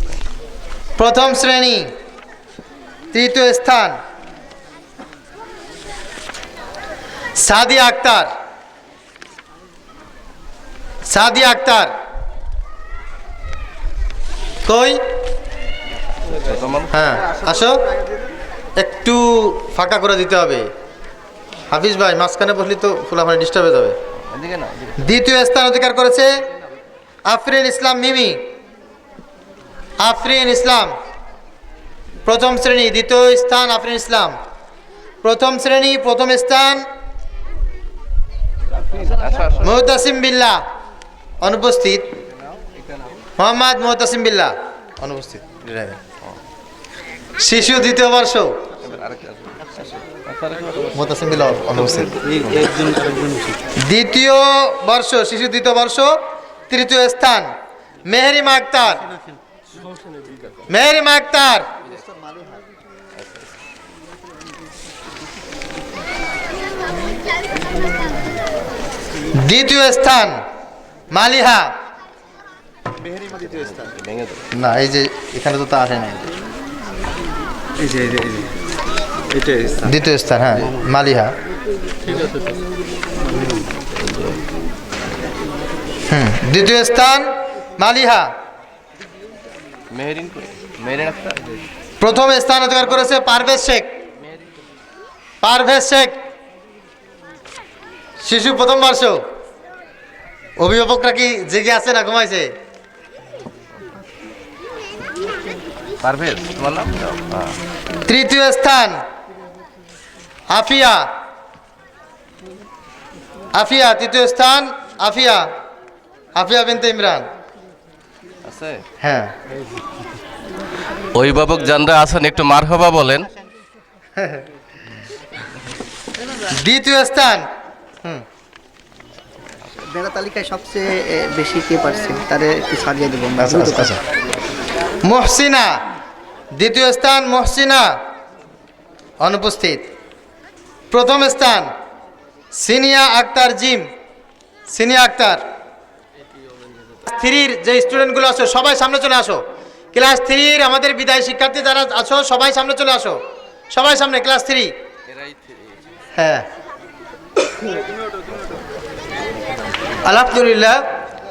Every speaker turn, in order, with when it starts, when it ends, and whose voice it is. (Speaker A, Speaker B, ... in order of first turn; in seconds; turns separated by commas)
Speaker A: 1.0-1.9, Speaker A: 3.1-4.0, Speaker A: 7.4-8.3, Speaker A: 11.1-11.9, Speaker A: 14.7-15.0, Speaker B: 16.4-16.9, Speaker A: 16.9-17.9, Speaker A: 18.8-20.7, Speaker A: 21.7-24.0, Speaker B: 24.3-25.0, Speaker A: 25.0-26.4, Speaker A: 27.3-28.4, Speaker A: 30.0-30.9, Speaker A: 32.2-34.4, Speaker A: 35.2-36.9, Speaker B: 39.0-39.6, Speaker A: 39.6-40.6, Speaker A: 41.4-42.1, Speaker A: 43.4-46.0, Speaker A: 47.4-48.7, Speaker B: 48.8-50.9, Speaker A: 50.9-52.2, Speaker B: 52.3-52.8, Speaker C: 53.0-53.4, Speaker A: 53.8-57.5, Speaker A: 58.0-59.0, Speaker A: 60.7-61.6, Speaker A: 69.3-70.4, Speaker A: 71.1-71.7, Speaker B: 73.3-74.4, Speaker A: 74.5-76.3, Speaker C: 77.8-78.5, Speaker C: 79.3-79.8, Speaker A: 79.8-81.3, Speaker A: 86.1-88.3, Speaker B: 89.9-91.5, Speaker A: 92.0-93.9, Speaker A: 95.4-96.2, Speaker A: 98.2-99.2, Speaker A: 100.6-102.5, Speaker B: 106.0-107.6, Speaker A: 108.1-109.0, Speaker A: 110.5-111.1, Speaker A: 113.5-115.5, Speaker A: 116.3-117.2, Speaker B: 118.4-118.8, Speaker A: 119.0-119.3, Speaker B: 121.1-123.3, Speaker A: 126.5-127.5, Speaker C: 129.8-133.9, Speaker A: 133.4-134.0, Speaker A: 135.0-135.8, Speaker A: 136.5-137.9, Speaker A: 139.2-139.8, Speaker A: 140.9-141.7, Speaker A: 142.5-143.9, Speaker A: 144.7-145.4, Speaker A: 147.0-153.2, Speaker A: 153.7-154.7, Speaker A: 156.2-156.4, Speaker A: 160.0-160.8